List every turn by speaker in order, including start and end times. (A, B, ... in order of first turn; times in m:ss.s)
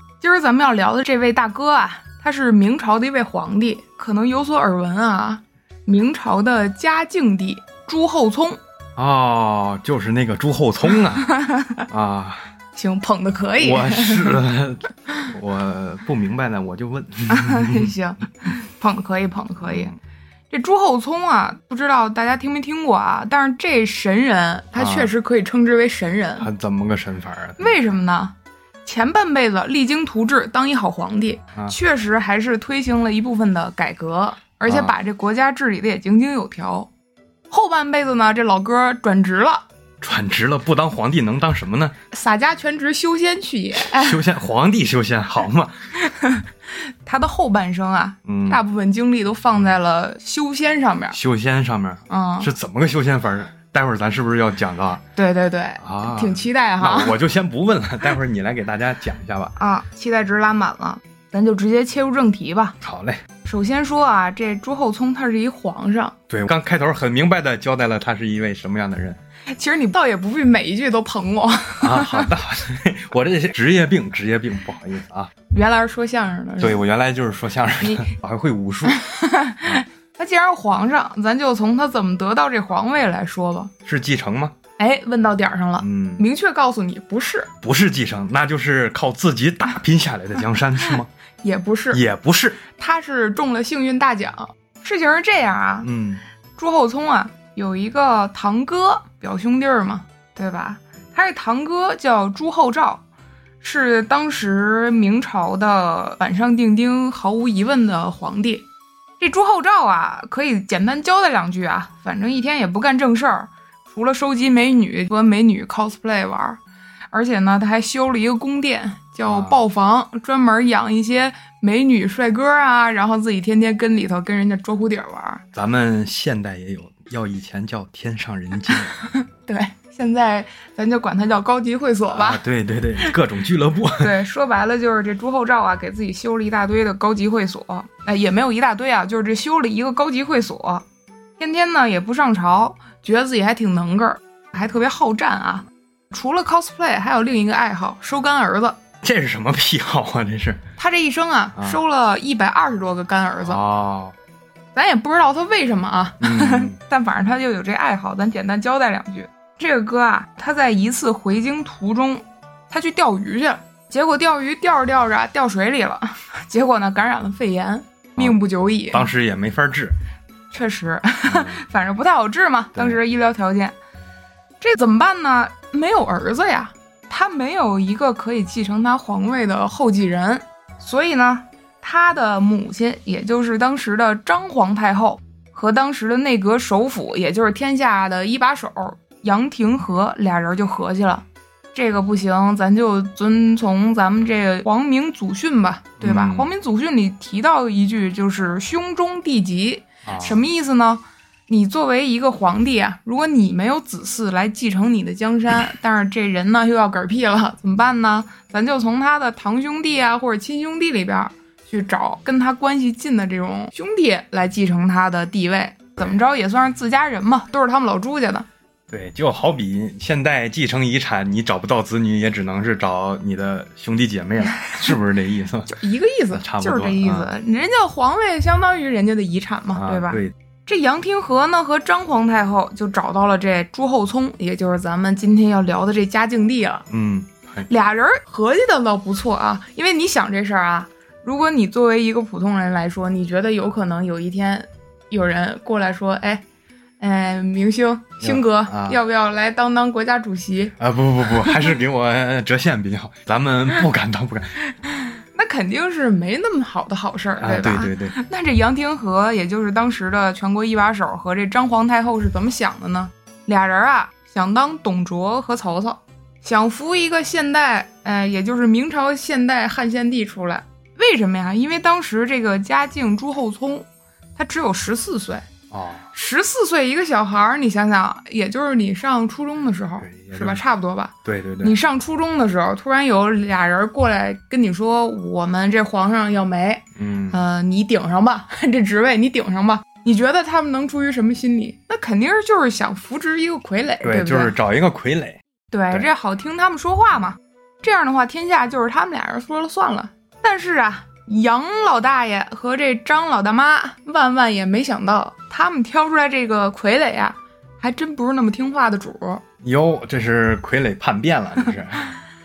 0:00.2-0:08.6 A
0:09.0-0:11.3 B
0:11.2-0:11.8 A
0:11.9-0:12.4 B
0:12.8-0:14.4 A
0:13.6-0:17.9 B
0:17.3-0:19.9 A
0:19.6-0:19.9 B
0:20.5-0:26.5 A
0:24.8-0:25.1 B
0:26.4-0:27.8 B
0:27.6-0:28.3 A
0:28.8-0:36.9 A
0:34.7-0:34.9 B
0:37.5-0:39.6 A
0:40.0-0:41.9 B
0:42.1-0:44.2 A
0:43.8-0:45.9 B
0:46.0-0:51.2 A
0:48.2-0:48.6 B
0:51.1-0:55.0 B
0:52.1-0:52.5 A
0:55.2-0:57.2 A
0:55.8-0:59.5 B
0:59.6-1:02.8 A
1:02.8-1:03.2 B
1:03.4-1:06.1 A
1:06.3-1:09.2 B
1:09.5-1:12.3 A
1:11.8-1:15.3 B
1:15.5-1:16.8 A
1:16.6-1:19.0 B
1:17.8-1:18.1 A
1:18.9-1:23.7 A
1:23.8-1:24.5 B
1:24.8-1:27.5 A
1:25.8-1:26.2 B
1:27.6-1:31.1 B
1:31.4-1:32.0 A
1:31.9-1:32.6 B
1:32.7-1:35.9 A
1:35.8-1:36.2 B
1:36.6-1:43.0 A
1:43.6-1:48.6 A
1:49.2-1:56.6 A
1:57.1-2:05.4 A
1:59.3-1:59.6 B
2:05.5-2:08.9 B
2:09.0-2:12.4 A
2:12.1-2:14.1 B
2:14.0-2:20.8 A
2:21.4-2:28.8 A
2:29.0-2:30.6 B
2:30.8-2:33.6 A
2:33.4-2:34.1 B
2:34.7-2:49.1 A
2:36.2-2:36.7 B
2:48.2-2:49.9 B
2:50.5-2:53.8 A
2:51.3-2:51.6 B
2:54.6-3:38.5 A
3:16.0-3:16.5 B
3:20.0-3:20.4 B
3:38.9-3:45.7 B
3:44.6-3:44.9 A
3:45.7-3:56.9 A
3:46.3-3:47.3 B
3:49.7-3:50.3 B
3:56.9-3:57.7 B
3:57.7-4:06.4 A
4:07.0-4:10.7 A
4:08.2-4:09.0 B
4:10.8-4:14.6 B
4:11.4-4:11.6 A
4:15.3-4:35.5 A
4:17.4-4:18.2 B
4:35.7-4:36.0 B
4:36.1-4:54.5 A
4:40.0-4:40.6 B
4:41.2-4:41.8 B
4:47.0-4:47.4 B
4:54.0-4:56.1 B
4:55.7-5:09.4 A
5:09.6-5:12.1 B